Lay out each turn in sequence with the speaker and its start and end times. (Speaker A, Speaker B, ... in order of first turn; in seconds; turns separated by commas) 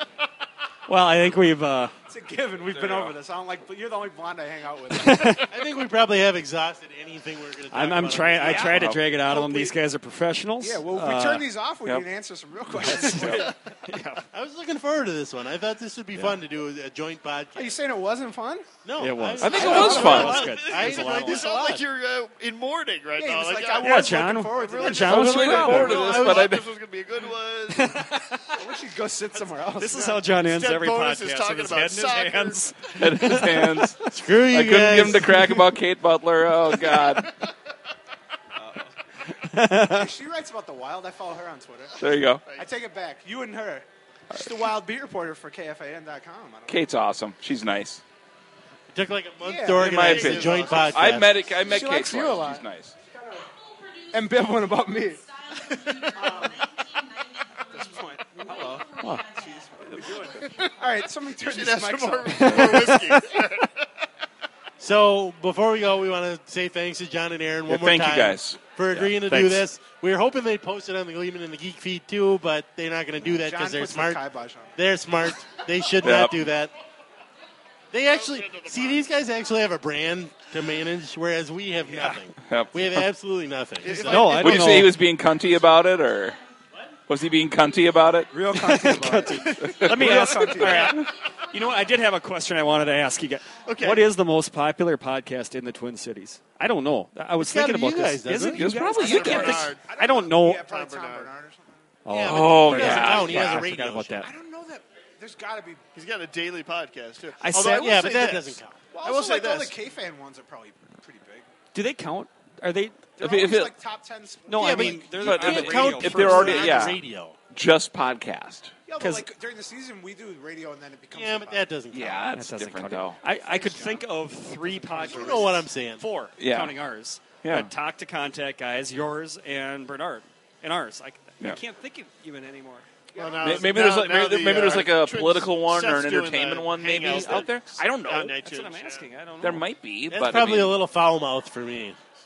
Speaker A: 0.9-1.9, Speaker B: 2.0-5.4, Speaker C: 2.6-3.1, Speaker A: 4.9-5.5, Speaker D: 5.5-8.8, Speaker A: 7.7-11.5, Speaker B: 8.4-9.7, Speaker C: 8.5-9.1, Speaker B: 10.6-13.5, Speaker A: 12.8-14.3, Speaker C: 13.0-13.5, Speaker D: 14.3-17.7, Speaker A: 16.1-16.4, Speaker B: 17.5-18.7, Speaker D: 18.8-21.8, Speaker A: 19.0-21.6, Speaker C: 19.4-20.6, Speaker B: 19.4-20.5, Speaker E: 20.3-28.1, Speaker B: 23.2-25.3, Speaker A: 23.8-26.1, Speaker D: 25.0-26.6, Speaker C: 25.1-26.6, Speaker A: 27.7-28.6, Speaker B: 28.5-30.2, Speaker A: 29.5-34.1, Speaker E: 30.4-32.9, Speaker C: 32.9-37.3, Speaker D: 34.1-35.4, Speaker E: 36.9-37.5, Speaker B: 38.5-38.9, Speaker A: 39.4-40.1, Speaker B: 39.6-46.9, Speaker C: 42.0-42.4, Speaker E: 42.4-42.7, Speaker C: 46.7-48.0, Speaker D: 48.9-51.5, Speaker B: 49.4-50.1, Speaker C: 49.7-52.9, Speaker E: 49.8-51.2, Speaker B: 51.6-53.5, Speaker B: 54.1-56.7, Speaker B: 57.7-63.0, Speaker A: 59.0-59.3, Speaker E: 61.4-63.9, Speaker A: 62.8-63.1, Speaker D: 64.8-74.2, Speaker C: 67.7-69.7, Speaker B: 73.2-74.8, Speaker D: 74.8-76.7, Speaker C: 76.0-76.4, Speaker D: 77.9-84.6, Speaker E: 78.0-79.0, Speaker B: 81.9-82.2, Speaker C: 82.4-83.1, Speaker E: 83.8-84.9, Speaker A: 84.0-85.0, Speaker C: 84.3-86.4, Speaker C: 87.1-88.3, Speaker B: 88.3-91.0, Speaker A: 88.5-100.6, Speaker C: 89.6-90.3, Speaker E: 93.6-94.1, Speaker D: 97.4-98.6, Speaker C: 98.5-99.7, Speaker B: 98.9-101.8, Speaker E: 99.0-99.8, Speaker E: 100.6-101.3, Speaker A: 102.0-104.3, Speaker D: 102.1-104.2, Speaker C: 102.2-103.7, Speaker B: 104.2-105.8, Speaker E: 105.9-108.5, Speaker A: 107.4-108.6, Speaker D: 107.5-108.8, Speaker B: 108.9-111.5, Speaker E: 109.0-109.7, Speaker A: 111.7-113.1, Speaker B: 113.2-115.4, Speaker C: 113.2-113.7, Speaker A: 114.5-116.9, Speaker D: 114.5-117.4, Speaker C: 115.2-118.7, Speaker B: 116.3-116.7, Speaker B: 118.9-121.7, Speaker A: 119.0-119.3, Speaker D: 121.1-122.3, Speaker C: 121.9-123.2, Speaker A: 122.3-132.8, Speaker B: 123.2-125.6, Speaker D: 125.0-126.0, Speaker C: 126.4-126.8, Speaker C: 127.4-127.7, Speaker B: 133.1-133.8, Speaker E: 133.2-139.1, Speaker C: 133.4-138.4, Speaker A: 138.4-139.7, Speaker C: 139.4-140.8, Speaker D: 140.1-142.0